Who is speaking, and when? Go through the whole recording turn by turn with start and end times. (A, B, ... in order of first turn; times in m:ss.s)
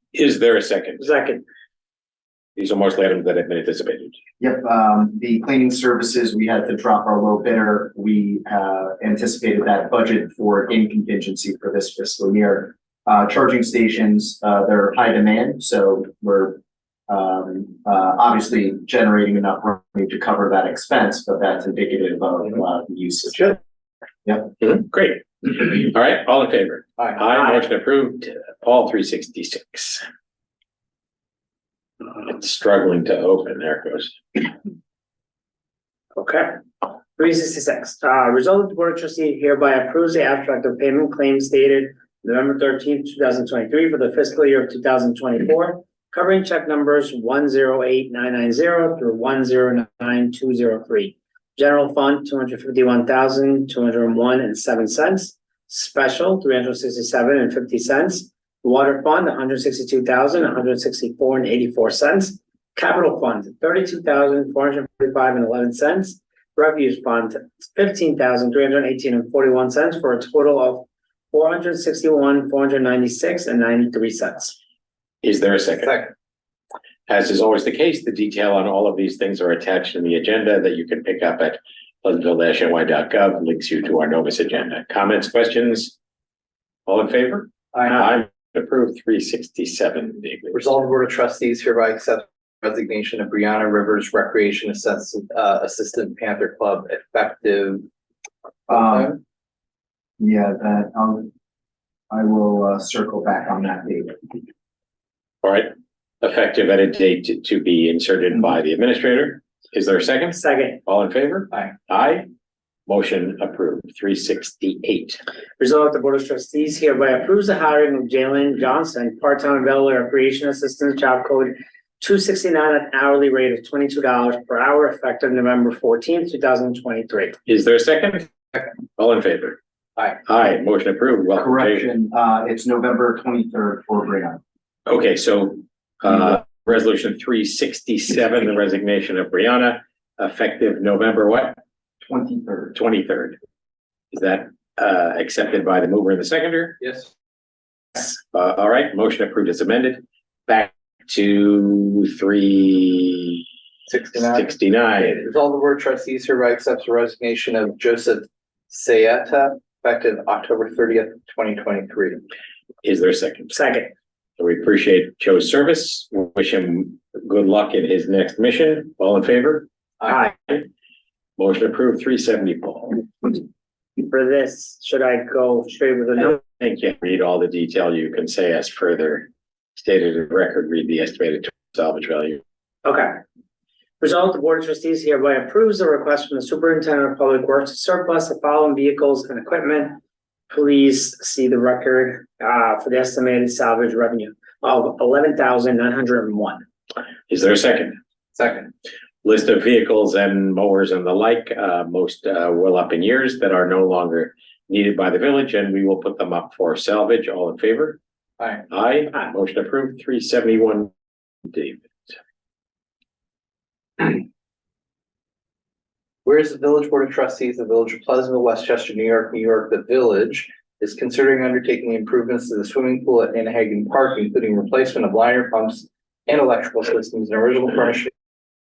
0:00.1-0:01.0 A
0:01.0-0:01.4 B
0:02.6-0:04.1 A
0:04.4-0:23.6 C
0:24.2-0:24.5 C
0:24.6-0:30.0 A
0:32.2-0:34.5 A
0:36.2-1:14.6 B
1:15.2-1:16.0 A
1:15.8-1:16.1 D
1:17.1-1:25.9 A
1:26.9-1:30.6 A
1:27.7-1:28.0 D
1:30.5-1:37.9 D
1:38.7-1:39.1 C
1:38.7-1:39.2 D
1:40.2-1:41.3 C
1:42.1-1:44.2 C
1:45.4-1:52.3 A
1:50.3-1:50.8 B
1:52.9-1:55.2 A
1:55.6-2:07.4 B
2:07.4-2:08.3 A
2:09.0-2:09.6 A
2:10.2-2:11.9 A
2:11.4-2:14.4 C
2:14.8-2:21.6 A
2:22.0-2:22.8 C
2:22.7-2:23.4 A
2:24.1-2:26.8 A
2:26.8-2:27.1 D
2:27.9-2:33.4 A
2:33.9-2:42.2 D
2:34.2-2:35.3 A
2:42.8-2:43.5 A
2:43.5-2:43.9 B
2:44.4-2:49.7 A
2:50.0-2:50.3 D
2:51.4-2:53.0 A
2:54.0-2:56.4 B
2:56.4-3:02.4 A
3:02.8-3:03.2 B
3:04.0-3:10.0 B
3:10.5-3:16.6 B
3:17.3-3:18.0 A
3:18.4-3:18.7 D
3:19.2-3:28.0 A
3:28.4-3:28.6 D
3:28.7-3:30.9 A
3:31.5-3:32.1 A
3:36.2-3:48.1 D